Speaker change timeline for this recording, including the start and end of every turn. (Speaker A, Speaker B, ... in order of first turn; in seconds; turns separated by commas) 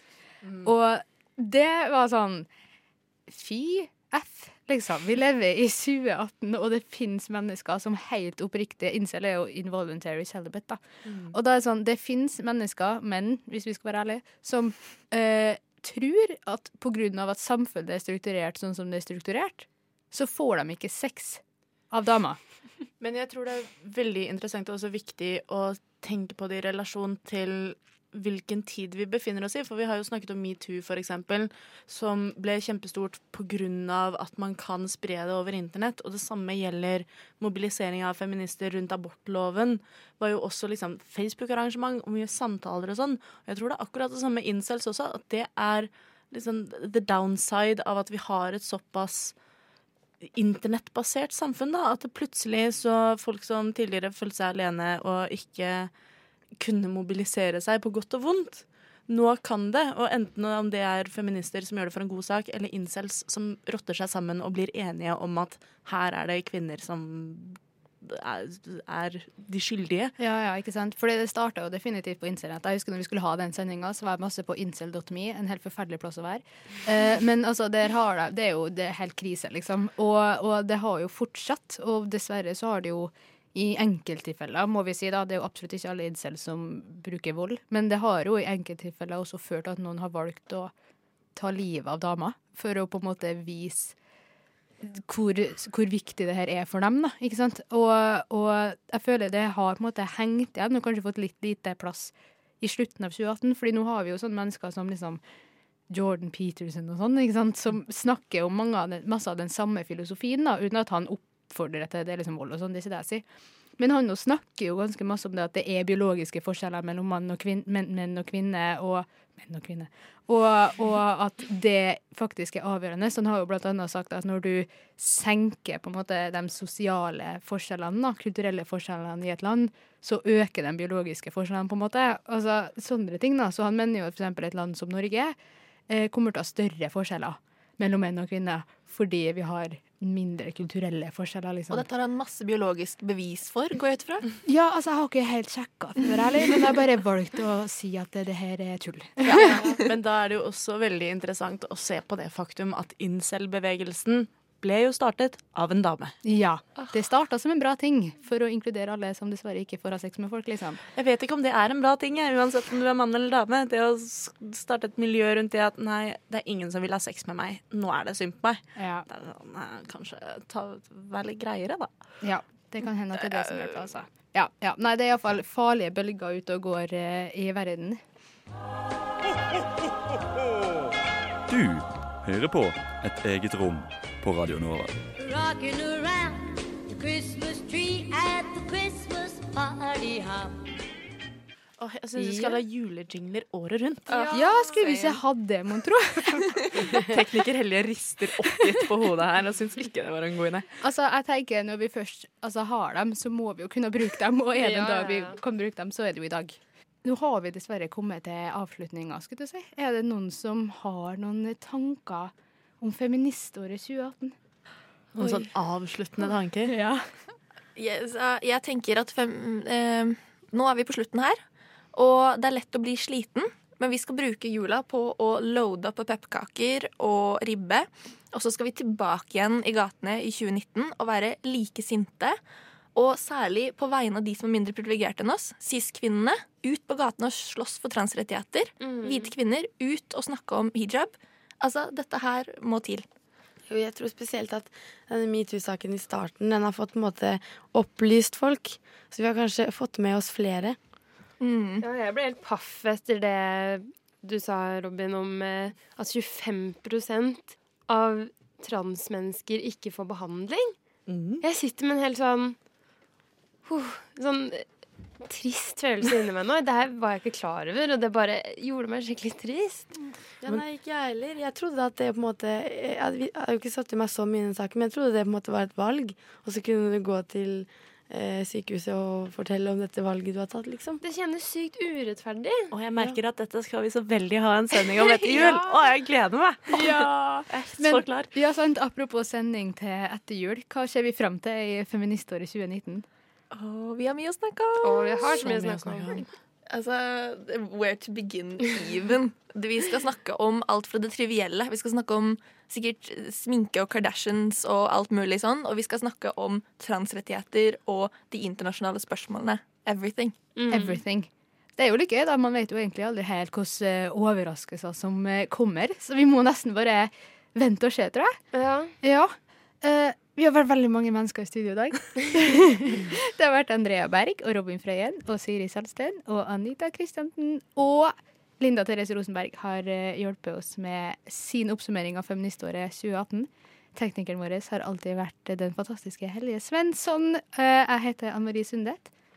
Speaker A: 0.4-0.7, Speaker B: 0.6-2.5, Speaker B: 3.3-22.4, Speaker A: 11.1-11.3, Speaker A: 23.0-49.3, Speaker A: 50.3-55.9, Speaker A: 56.6-70.1, Speaker B: 70.2-90.7, Speaker B: 91.3-94.0, Speaker B: 94.8-105.2, Speaker B: 105.9-113.2, Speaker B: 113.8-135.3, Speaker B: 135.9-141.8, Speaker C: 141.7-144.3, Speaker B: 144.4-149.6, Speaker A: 149.3-156.2, Speaker C: 149.4-149.9, Speaker B: 156.2-160.8, Speaker A: 160.9-171.9, Speaker B: 168.8-169.1, Speaker B: 172.2-178.0, Speaker D: 181.5-184.9, Speaker E: 185.2-190.6, Speaker A: 191.8-194.1, Speaker C: 194.1-195.2, Speaker F: 194.1-194.7, Speaker B: 194.3-196.6, Speaker A: 196.9-200.7, Speaker B: 200.8-214.3, Speaker F: 204.6-205.4, Speaker A: 215.1-216.7, Speaker B: 216.7-217.3, Speaker C: 217.8-221.4, Speaker C: 221.9-232.4, Speaker C: 232.9-243.0, Speaker F: 238.8-239.3, Speaker G: 243.7-250.8, Speaker C: 251.4-251.8, Speaker F: 251.8-260.8, Speaker A: 261.1-261.4, Speaker F: 261.4-262.6, Speaker F: 263.6-264.6, Speaker F: 265.2-269.9, Speaker G: 270.4-281.0, Speaker F: 281.0-282.7, Speaker A: 282.7-286.8, Speaker B: 286.7-293.1, Speaker A: 287.5-288.3, Speaker C: 293.5-310.3, Speaker F: 294.8-296.2, Speaker G: 295.4-296.1, Speaker F: 310.6-311.0, Speaker B: 310.7-318.4, Speaker F: 318.5-318.9, Speaker B: 319.0-339.1